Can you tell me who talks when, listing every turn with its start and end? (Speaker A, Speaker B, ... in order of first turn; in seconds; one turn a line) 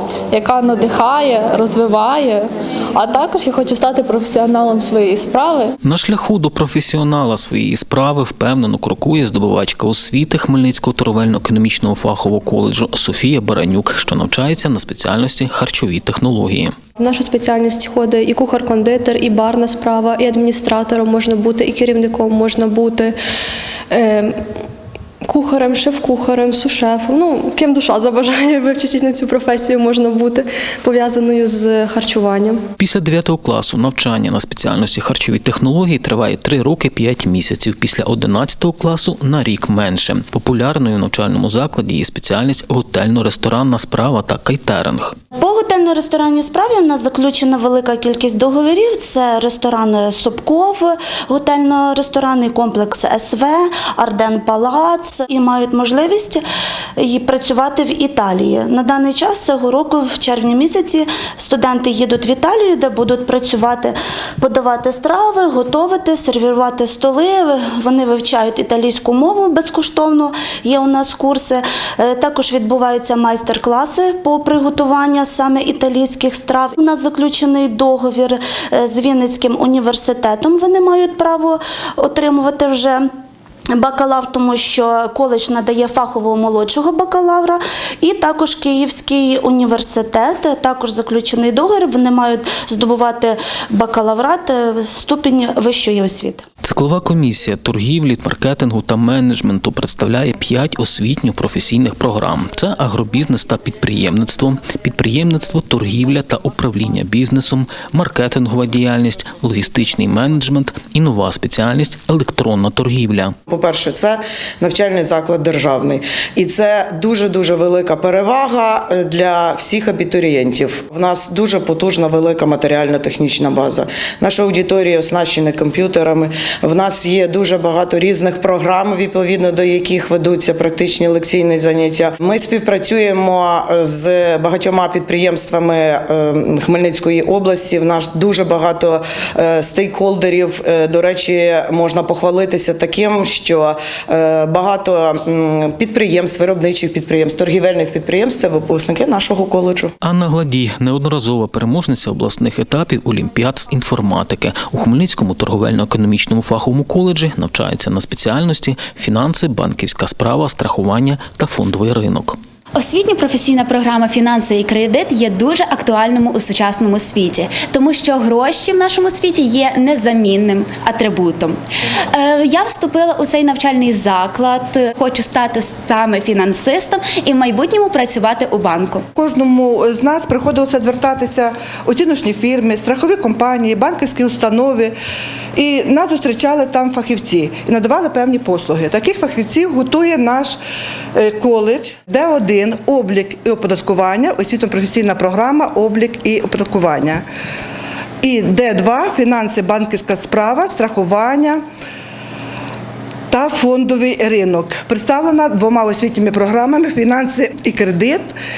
Speaker A: 0.3-5.8
Speaker B: 5.8-16.7
Speaker C: 17.0-23.2
Speaker C: 23.9-24.4
Speaker C: 25.2-32.6
Speaker B: 32.8-45.1
Speaker D: 45.4-56.4
Speaker D: 57.0-83.1
Speaker D: 83.7-96.4
Speaker B: 96.6-113.3
Speaker E: 113.5-149.9
Speaker B: 150.0-162.4
Speaker F: 162.8-171.6
Speaker F: 172.1-179.0
Speaker G: 179.2-184.9
Speaker G: 185.6-190.6
Speaker G: 191.1-197.2
Speaker G: 198.2-201.6
Speaker G: 203.3-208.3